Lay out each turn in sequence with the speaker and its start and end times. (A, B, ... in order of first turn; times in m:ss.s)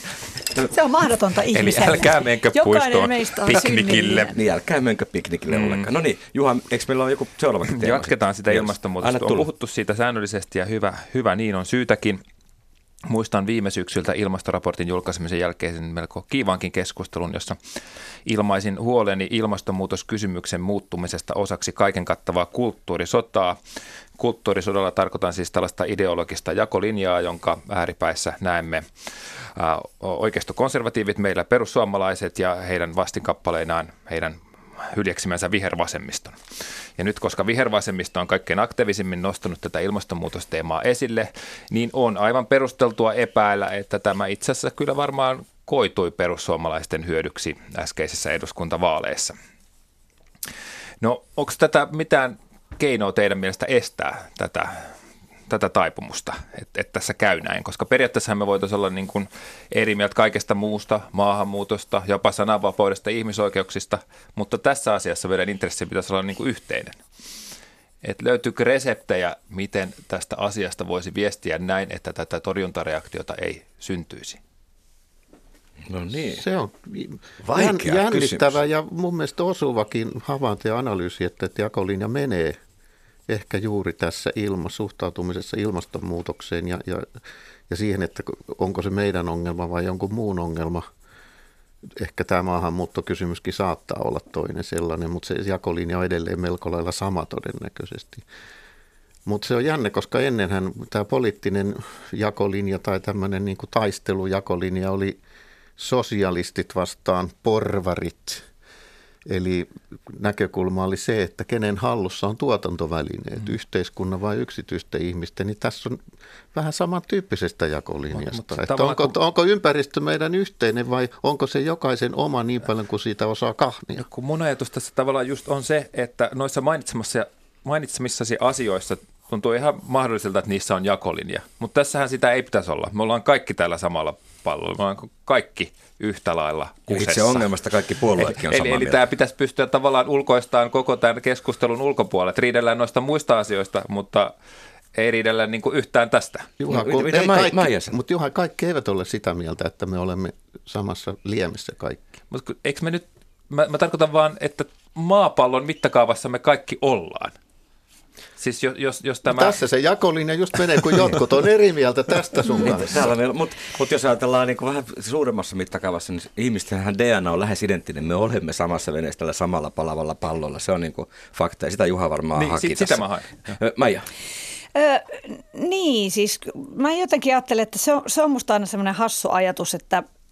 0:00.7-0:04.4 A
0:01.5-0:04.3 B
0:04.3-0:09.5 C
0:05.5-0:05.9 B
0:07.7-0:12.2 B
0:13.1-0:17.6 B
0:18.2-0:23.6 B
0:24.2-0:36.4 B
0:37.0-0:49.4 B
0:51.0-0:54.9 B
0:55.5-1:07.0 B
1:08.0-1:14.4 B
1:15.9-1:16.4 C
1:16.3-1:22.6 D
1:17.4-1:18.6 C
1:23.3-1:30.8 D
1:31.8-1:38.2 D
1:39.3-1:45.2 D
1:45.8-1:48.5 D
1:49.3-1:56.0 D
1:56.5-2:04.1 D
1:58.1-1:59.2 B
2:04.0-2:17.5 B
2:16.9-2:19.0 C
2:18.0-2:24.3 B
2:24.9-2:26.5 B
2:26.6-2:32.2 D
2:26.7-2:28.0 C
2:32.3-2:37.4 B
2:38.4-2:39.6 B
2:39.3-2:43.1 D
2:42.6-2:54.1 C
2:52.4-2:53.6 B
2:54.8-3:00.0 A